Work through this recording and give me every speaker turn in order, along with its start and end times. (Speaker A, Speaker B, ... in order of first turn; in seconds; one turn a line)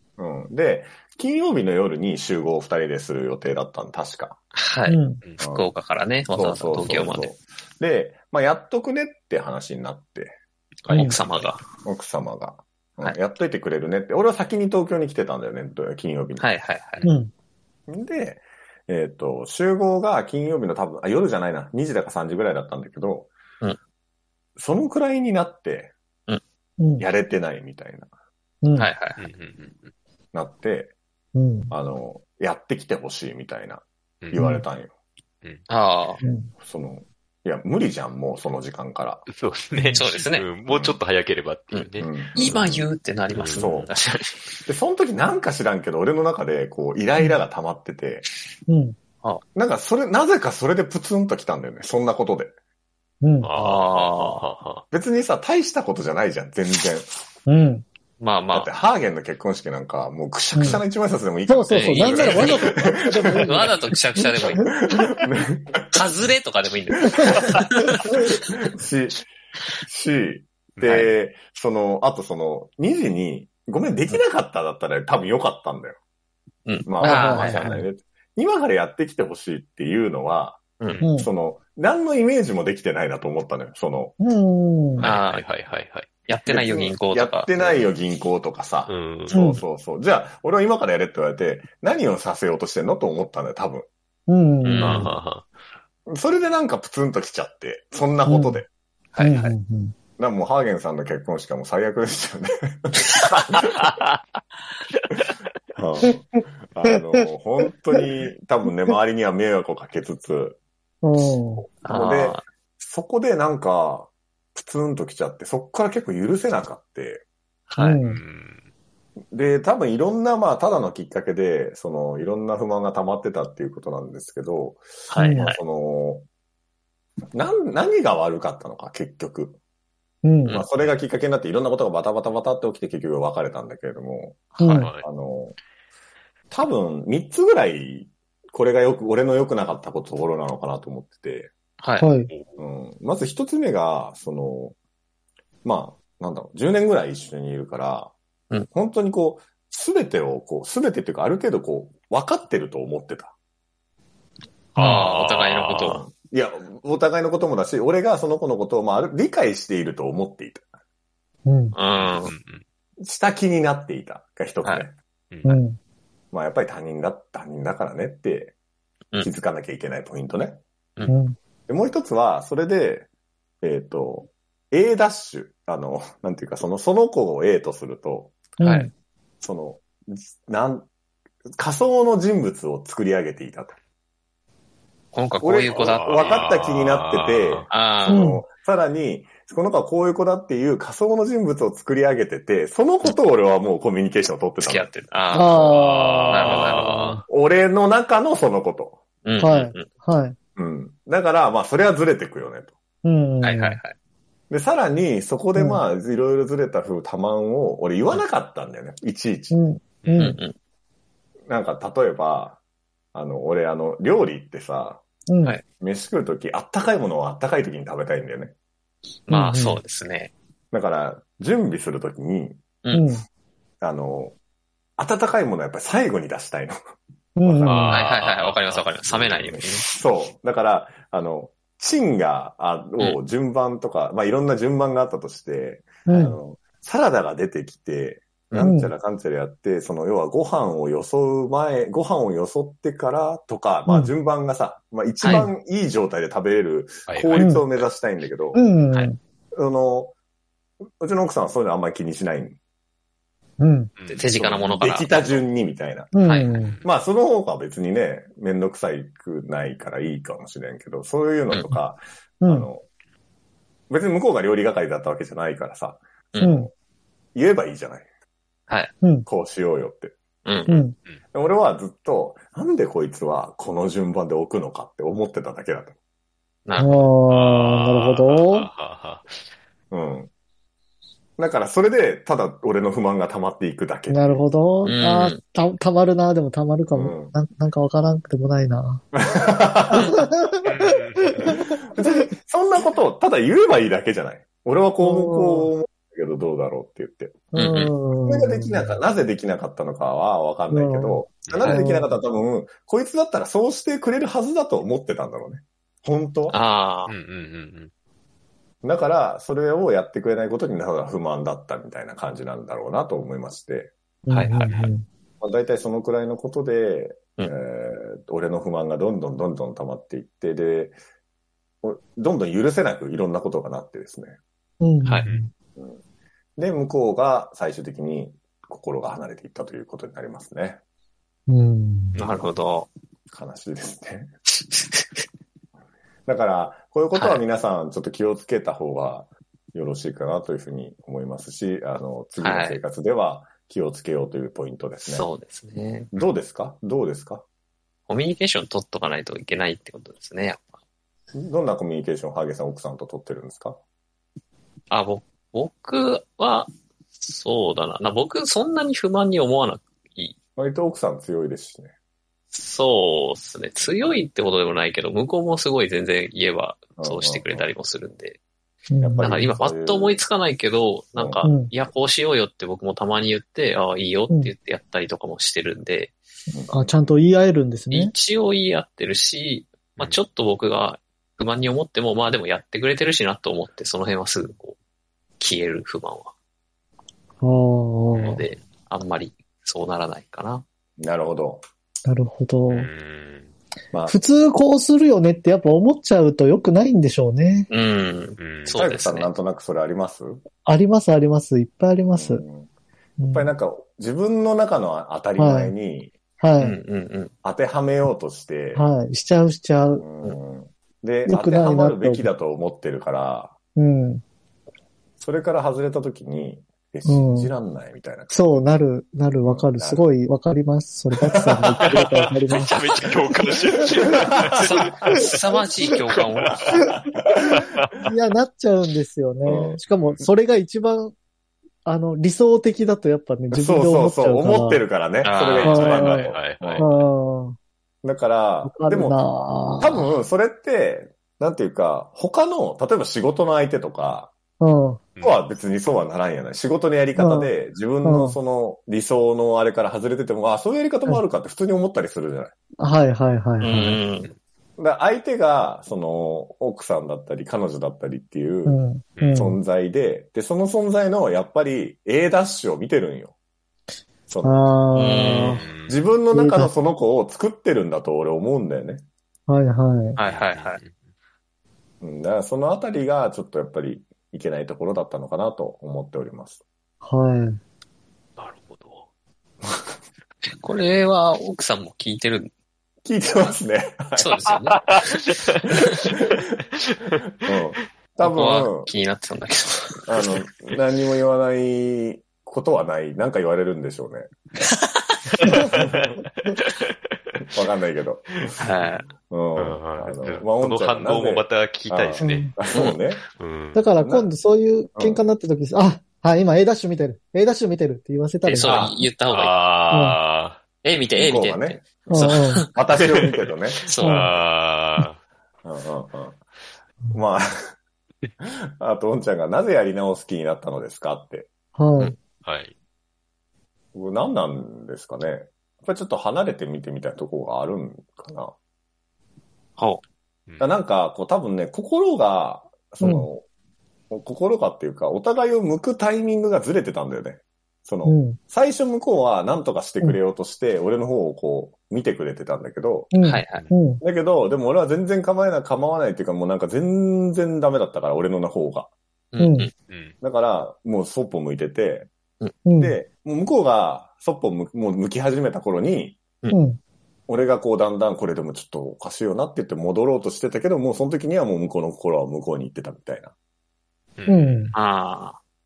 Speaker A: 0.2-4.4
Speaker B: 4.5-5.0
Speaker C: 4.9-5.2
Speaker A: 5.4-5.7
Speaker B: 5.5-7.3
Speaker A: 6.3-10.4
Speaker B: 10.9-11.6
Speaker C: 10.9-11.2
Speaker A: 11.8-16.5
Speaker B: 16.4-17.1
Speaker C: 17.0-17.3
Speaker A: 17.9-23.3
Speaker A: 24.6-25.9
Speaker C: 26.8-27.1
Speaker A: 27.0-28.1
Speaker C: 28.6-28.9
Speaker B: 28.8-29.2
Speaker D: 29.2-29.9
Speaker A: 30.3-30.9
Speaker C: 31.4-31.7
Speaker A: 31.7-34.9
Speaker C: 34.4-34.6
Speaker B: 35.7-36.2
Speaker C: 36.2-36.5
Speaker A: 36.6-39.3
Speaker D: 39.3-43.9
Speaker C: 39.7-40.0
Speaker B: 40.0-40.5
Speaker A: 40.7-41.0
Speaker B: 41.7-44.6
Speaker A: 42.0-42.7
Speaker A: 43.6-43.9
Speaker A: 44.7-48.3
Speaker C: 48.7-49.0
Speaker A: 49.5-52.5
Speaker C: 53.2-53.5
Speaker D: 53.4-54.8
Speaker B: 53.5-54.4
Speaker A: 54.9-57.1
Speaker C: 57.5-57.8
Speaker B: 58.2-58.7
Speaker A: 58.5-63.7
Speaker C: 60.5-60.8
Speaker C: 61.5-65.1
Speaker B: 61.7-62.7
Speaker B: 63.4-64.8
Speaker A: 64.7-66.0
Speaker B: 65.9-68.4
Speaker A: 67.1-67.6
Speaker A: 68.3-69.2
Speaker A: 69.8-76.0
Speaker B: 70.8-71.1
Speaker B: 76.7-77.8
Speaker A: 76.9-84.1
Speaker C: 77.0-77.8
Speaker C: 81.0-81.3
Speaker C: 84.2-85.0
Speaker D: 85.0-86.1
Speaker B: 85.0-85.5
Speaker B: 86.3-87.5
Speaker A: 86.5-93.9
Speaker D: 88.9-89.4
Speaker C: 89.3-89.6
Speaker C: 94.3-95.1
Speaker B: 94.6-95.1
Speaker D: 94.8-95.5
Speaker A: 96.1-98.7
Speaker C: 98.3-98.6
Speaker B: 99.1-99.5
Speaker C: 99.2-99.9
Speaker A: 100.2-103.9
Speaker A: 105.8-110.6
Speaker C: 111.0-111.7
Speaker A: 111.8-117.2
Speaker B: 111.8-112.4
Speaker B: 117.7-118.0
Speaker C: 117.8-118.2
Speaker D: 118.0-118.6
Speaker A: 119.3-126.3
Speaker B: 125.1-125.6
Speaker C: 125.2-125.5
Speaker A: 127.3-129.6
Speaker C: 130.2-130.6
Speaker A: 130.5-135.6
Speaker B: 134.6-134.9
Speaker C: 134.6-134.9
Speaker D: 134.8-135.1
Speaker A: 136.5-141.5
Speaker B: 141.8-142.1
Speaker C: 142.0-142.3
Speaker A: 142.6-144.8
Speaker A: 145.6-148.1
Speaker A: 148.7-153.3
Speaker D: 154.8-156.0
Speaker B: 154.8-156.1
Speaker A: 155.8-160.7
Speaker C: 161.5-161.8
Speaker B: 161.7-162.3
Speaker D: 162.0-162.6
Speaker A: 163.0-164.9
Speaker C: 165.4-165.8
Speaker A: 166.3-168.5
Speaker A: 169.2-170.6
Speaker C: 171.1-171.4
Speaker A: 171.7-173.1
Speaker A: 173.6-178.4
Speaker C: 178.6-178.9
Speaker B: 178.6-178.9
Speaker A: 179.4-180.9
Speaker A: 181.6-183.8
Speaker B: 185.1-186.6
Speaker A: 185.4-194.9
Speaker D: 185.7-187.7
Speaker B: 187.7-188.3
Speaker C: 188.1-188.4
Speaker B: 194.6-195.8
Speaker C: 195.3-197.2
Speaker D: 195.7-197.2
Speaker B: 196.3-197.2
Speaker A: 197.3-199.0
Speaker B: 199.2-199.9
Speaker C: 199.4-200.4
Speaker A: 200.6-202.8
Speaker C: 203.0-203.8
Speaker B: 203.4-203.9
Speaker A: 204.5-209.6
Speaker C: 205.6-205.8
Speaker C: 209.5-210.4
Speaker B: 210.2-210.6
Speaker A: 211.5-212.6
Speaker A: 213.1-215.0
Speaker C: 215.3-215.6
Speaker A: 215.8-218.5
Speaker B: 219.3-220.3
Speaker C: 219.3-219.8
Speaker A: 220.7-222.6
Speaker C: 222.9-223.2
Speaker A: 223.8-224.3
Speaker A: 225.0-226.8
Speaker C: 227.4-228.0
Speaker A: 227.4-228.0
Speaker D: 227.7-229.3
Speaker B: 227.9-229.9
Speaker A: 229.2-248.6
Speaker C: 236.1-236.4
Speaker C: 238.6-238.9
Speaker C: 243.9-244.1
Speaker B: 245.2-245.5
Speaker C: 245.2-245.5
Speaker D: 247.1-247.8
Speaker C: 247.4-247.7
Speaker C: 248.5-249.2
Speaker A: 249.6-250.1
Speaker A: 251.0-252.6
Speaker C: 253.6-253.9
Speaker D: 254.0-254.4
Speaker B: 254.1-255.2
Speaker A: 254.4-256.1
Speaker C: 256.1-256.8
Speaker B: 256.2-256.6
Speaker A: 256.8-262.9
Speaker B: 261.5-261.8
Speaker C: 262.4-262.7
Speaker A: 263.9-266.6
Speaker B: 266.3-266.6
Speaker C: 266.4-266.7
Speaker A: 267.4-268.1
Speaker B: 268.7-268.9
Speaker C: 269.0-269.3
Speaker A: 269.3-270.1
Speaker B: 270.4-270.8
Speaker C: 270.7-270.9
Speaker A: 271.3-275.9
Speaker B: 276.7-277.1
Speaker C: 276.8-278.7
Speaker D: 277.3-279.4
Speaker A: 279.9-280.3
Speaker A: 281.4-284.4
Speaker C: 284.1-289.0
Speaker B: 284.8-285.4
Speaker A: 286.9-287.4
Speaker A: 289.1-290.2
Speaker C: 289.9-292.1
Speaker D: 290.6-291.5
Speaker A: 291.5-297.5
Speaker C: 295.0-295.7
Speaker C: 297.5-299.0
Speaker B: 297.6-297.9
Speaker A: 298.3-306.6
Speaker C: 300.7-302.2
Speaker D: 301.5-301.8
Speaker B: 306.5-307.1
Speaker D: 307.1-307.9
Speaker A: 308.8-313.9
Speaker C: 314.3-315.1
Speaker B: 314.3-314.9
Speaker A: 315.4-321.0
Speaker A: 321.8-324.4
Speaker C: 324.8-325.5
Speaker B: 325.1-325.3
Speaker A: 326.6-330.8
Speaker C: 331.5-332.2
Speaker B: 332.2-332.9
Speaker A: 333.3-334.3
Speaker B: 334.7-335.2
Speaker A: 336.3-345.3
Speaker B: 337.1-337.4
Speaker B: 342.4-342.8
Speaker B: 345.1-346.1
Speaker A: 346.1-347.4
Speaker B: 348.1-350.8
Speaker A: 351.3-353.8
Speaker B: 354.9-360.4
Speaker A: 360.6-361.9
Speaker B: 362.5-368.4
Speaker A: 367.0-367.7
Speaker C: 368.9-369.5
Speaker A: 369.0-370.2
Speaker B: 369.2-376.2
Speaker A: 371.2-371.5
Speaker C: 371.4-371.7
Speaker A: 376.5-376.9
Speaker C: 376.7-378.1
Speaker B: 377.9-384.8
Speaker B: 385.4-386.3
Speaker C: 387.4-388.4
Speaker B: 388.2-390.6
Speaker A: 391.0-391.6
Speaker C: 392.1-392.9
Speaker D: 392.7-393.5
Speaker A: 393.9-394.2
Speaker C: 394.1-397.7
Speaker B: 397.7-399.3
Speaker D: 398.4-398.8
Speaker A: 398.8-400.4
Speaker C: 400.6-402.4
Speaker A: 402.1-402.7
Speaker C: 403.2-403.5
Speaker A: 403.3-406.1
Speaker C: 405.4-405.8
Speaker C: 406.4-406.8
Speaker B: 406.6-407.3
Speaker A: 407.4-408.9
Speaker C: 408.8-410.1
Speaker A: 410.0-413.5
Speaker C: 411.3-412.3
Speaker C: 413.8-414.2
Speaker A: 415.2-418.5
Speaker C: 417.1-417.5
Speaker C: 418.3-422.7
Speaker A: 419.4-420.1
Speaker A: 421.4-422.0
Speaker D: 421.8-425.3
Speaker A: 424.1-424.9
Speaker B: 424.5-426.8
Speaker D: 426.2-426.8
Speaker A: 426.5-427.6
Speaker D: 427.5-428.1
Speaker C: 428.0-431.1
Speaker A: 429.4-430.3
Speaker C: 431.9-434.9
Speaker A: 433.5-437.0
Speaker B: 435.2-435.9
Speaker D: 435.5-436.9
Speaker C: 435.6-437.6
Speaker A: 438.0-439.2
Speaker C: 438.6-440.1
Speaker A: 439.8-444.3
Speaker C: 444.6-445.0
Speaker A: 445.2-452.5
Speaker C: 447.2-447.5
Speaker C: 448.0-448.4
Speaker C: 452.8-454.0
Speaker B: 453.6-454.3
Speaker A: 454.8-458.8
Speaker C: 458.7-459.6
Speaker D: 459.2-459.4
Speaker A: 459.3-463.3
Speaker A: 464.3-464.7
Speaker C: 464.4-465.6
Speaker B: 464.9-465.7
Speaker D: 465.5-466.0
Speaker A: 465.9-469.0
Speaker C: 466.3-466.7
Speaker C: 469.5-470.2
Speaker B: 470.2-470.8
Speaker D: 470.2-471.0
Speaker A: 472.0-476.6
Speaker C: 477.0-477.6
Speaker D: 478.4-479.1
Speaker B: 480.6-482.5
Speaker A: 483.1-484.5
Speaker B: 484.2-484.9
Speaker D: 484.9-485.8
Speaker A: 485.7-486.5
Speaker A: 487.4-488.9
Speaker B: 488.2-490.4
Speaker A: 490.1-494.3
Speaker D: 495.3-497.4
Speaker C: 495.5-495.7
Speaker A: 495.7-496.2
Speaker A: 497.5-498.6
Speaker B: 498.6-499.1
Speaker A: 499.3-503.2
Speaker D: 499.6-502.6
Speaker C: 502.2-502.5
Speaker D: 503.3-503.9
Speaker C: 503.7-508.9
Speaker A: 504.0-504.3
Speaker A: 505.0-505.2
Speaker B: 508.4-509.6
Speaker A: 508.6-509.0
Speaker D: 509.3-510.6
Speaker C: 509.9-510.2
Speaker B: 510.8-512.7
Speaker A: 511.2-513.8
Speaker C: 512.1-512.6
Speaker B: 513.9-514.3
Speaker C: 514.0-514.3
Speaker D: 514.0-515.2
Speaker A: 515.6-516.4
Speaker A: 517.1-517.7
Speaker A: 518.4-521.5
Speaker C: 521.8-522.1
Speaker D: 522.4-522.7
Speaker A: 523.9-528.5
Speaker B: 529.8-530.0
Speaker D: 530.5-530.8
Speaker A: 530.6-533.5
Speaker C: 533.0-533.3
Speaker A: 534.1-543.1
Speaker C: 538.0-538.4
Speaker C: 543.1-544.0
Speaker B: 543.2-543.7
Speaker A: 544.0-548.9
Speaker B: 549.3-549.7
Speaker C: 549.4-549.7
Speaker D: 549.9-550.1
Speaker A: 550.2-552.1
Speaker C: 552.6-553.0
Speaker A: 552.8-556.2
Speaker C: 556.5-556.8
Speaker A: 557.3-563.3
Speaker D: 564.2-564.7
Speaker C: 564.3-564.7
Speaker B: 564.7-565.4